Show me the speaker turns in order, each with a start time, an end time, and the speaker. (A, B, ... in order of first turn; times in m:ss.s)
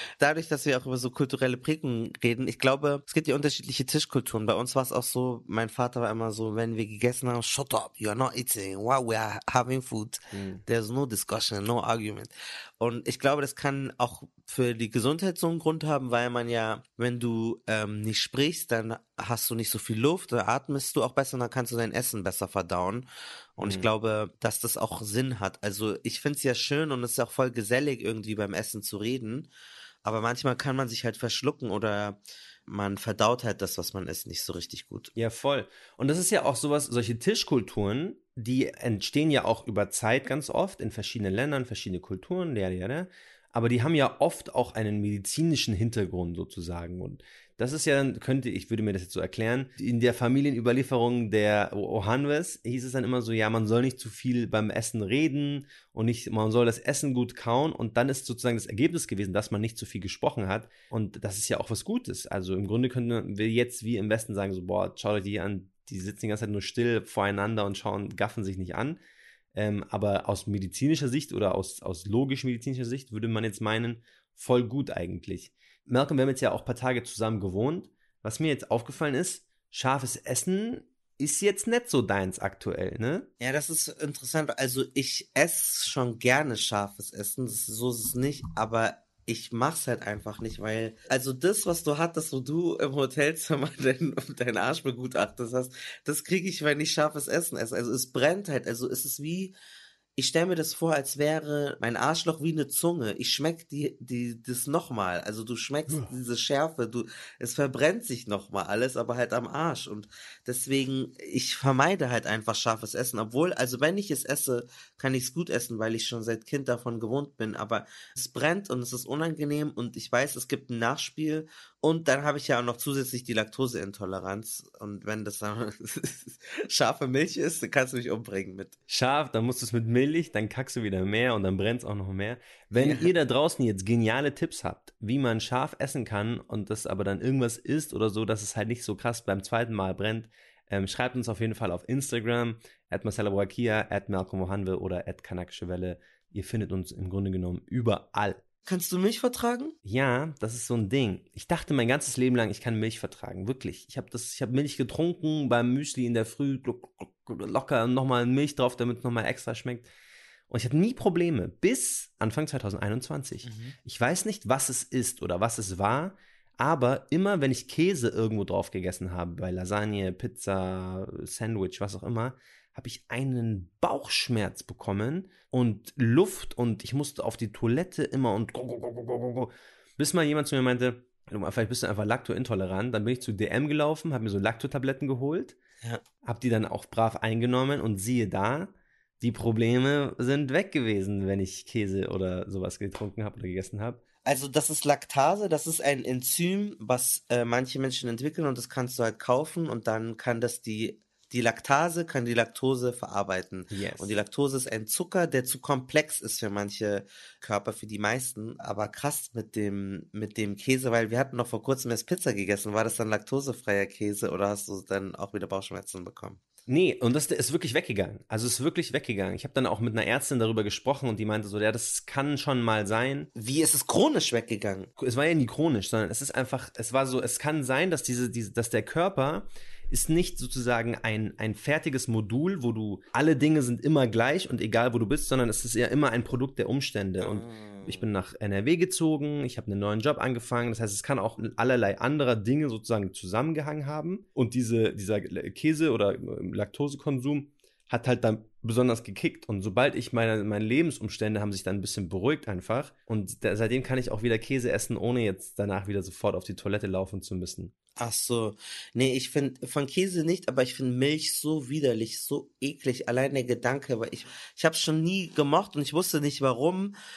0:00.2-0:29.5 A
0:10.3-0:10.6 B
0:23.6-0:23.9 B
0:30.0-0:35.1 A
0:35.2-1:09.0 B
1:09.5-1:23.3 B
1:23.4-1:39.5 A
1:40.2-2:08.7 A
2:08.9-2:28.4 B
2:12.8-2:13.1 A
2:28.7-2:29.8 A
2:29.8-2:39.9 B
2:40.5-3:05.6 B
2:43.4-2:43.7 A
3:06.2-3:14.0 B
3:14.2-3:36.4 A
3:23.7-3:24.2 B
3:36.7-3:43.3 B
3:43.4-3:44.9 A
3:45.0-4:17.7 B
3:57.2-3:58.0 A
4:18.0-4:26.9 A